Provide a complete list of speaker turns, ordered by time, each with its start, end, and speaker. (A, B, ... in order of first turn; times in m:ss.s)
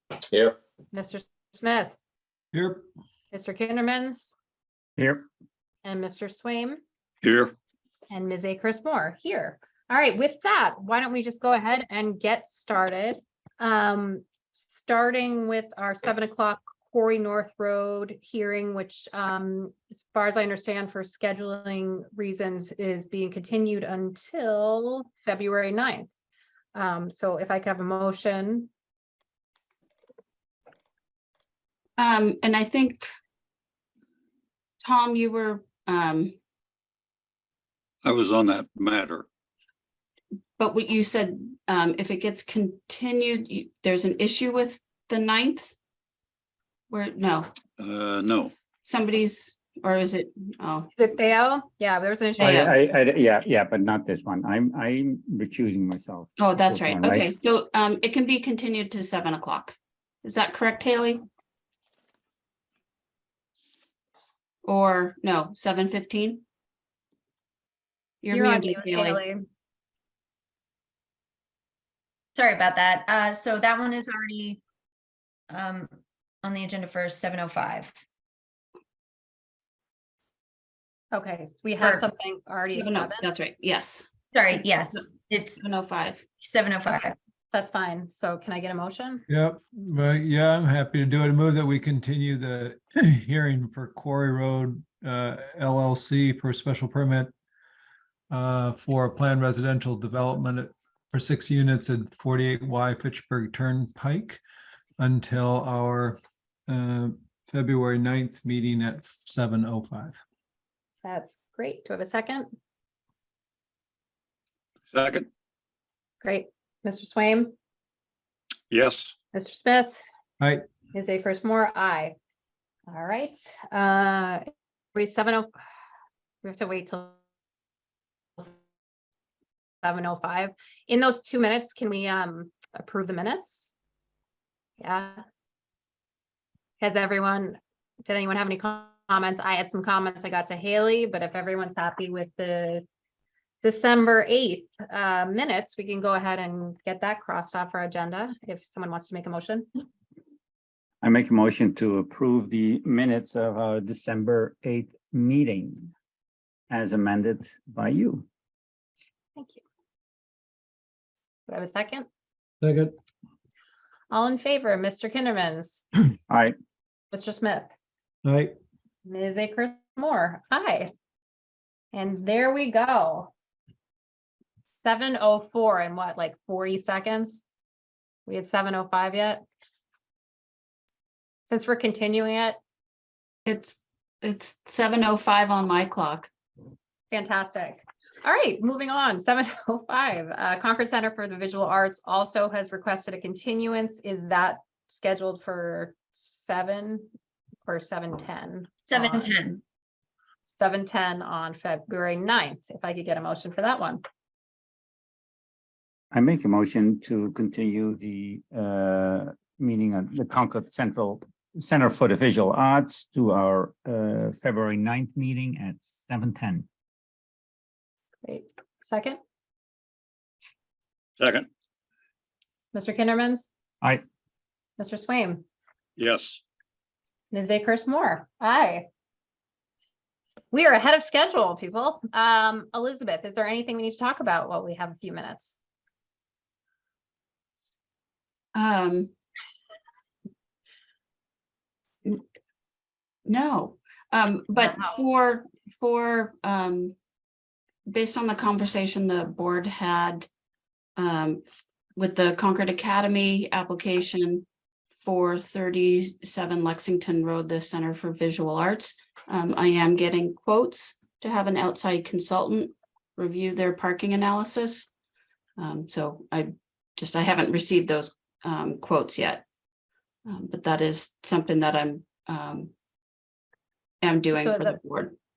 0:00.9-0:02.0 A
0:02.5-0:02.8 B
0:03.3-0:04.3 A
0:05.0-0:05.2 C
0:05.8-0:06.8 A
0:07.2-0:07.5 D
0:08.1-0:26.1 A
0:26.7-0:28.7 A
0:32.0-0:33.0 E
0:34.8-0:36.4 E
0:38.0-0:39.3 D
0:40.6-0:45.8 E
0:46.9-0:47.5 E
0:47.8-0:48.6 D
0:48.8-0:50.9 E
0:51.0-0:52.7 A
0:52.4-0:52.7 E
0:52.4-0:57.3 C
0:56.4-1:01.2 E
1:04.6-1:06.4 E
1:08.2-1:09.2 E
1:08.3-1:09.4 A
1:12.4-1:14.6 F
1:15.5-1:18.0 F
1:21.1-1:23.3 A
1:22.7-1:26.3 E
1:24.3-1:25.6 F
1:26.4-1:27.2 F
1:27.5-1:29.2 A
1:29.3-1:37.3 B
1:38.3-1:44.4 B
1:45.0-1:50.2 B
1:51.0-1:52.5 A
1:54.9-1:55.3 D
1:56.2-1:57.6 A
1:58.7-1:59.1 D
1:59.3-2:00.0 A
2:00.9-2:02.2 A
2:02.9-2:04.4 A
2:05.0-2:05.5 A
2:06.4-2:07.2 A
2:09.8-2:13.7 A
2:14.8-2:15.2 A
2:16.8-2:22.8 A
2:23.6-2:29.7 A
2:31.0-2:35.9 C
2:36.7-2:38.3 C
2:39.4-2:39.6 A
2:41.5-2:42.1 A
2:42.6-2:42.9 B
2:44.1-2:45.8 A
2:46.3-2:46.6 C
2:47.1-2:47.7 A
2:48.2-2:48.5 B
2:49.1-2:50.9 A
2:51.9-2:53.3 A
2:54.8-2:57.4 A
2:58.3-2:59.4 A
3:01.5-3:02.6 A
3:03.5-3:06.3 E
3:07.1-3:17.1 A
3:17.6-3:19.4 A
3:18.9-3:19.6 F
3:20.6-3:24.0 A
3:26.1-3:36.7 C
3:38.2-3:39.2 A
3:41.2-3:41.5 D
3:42.7-3:43.5 A
3:44.8-3:45.4 A
3:46.0-3:46.4 D
3:47.3-3:48.9 A
3:50.5-3:55.6 A
3:58.6-3:59.1 E
4:03.3-4:07.0 E
4:07.9-4:10.3 E
4:11.0-4:11.4 E
4:12.0-4:24.9 E
4:25.6-4:29.4 E
4:30.3-4:32.7 E
4:34.0-4:35.2 E
4:34.3-4:34.8 A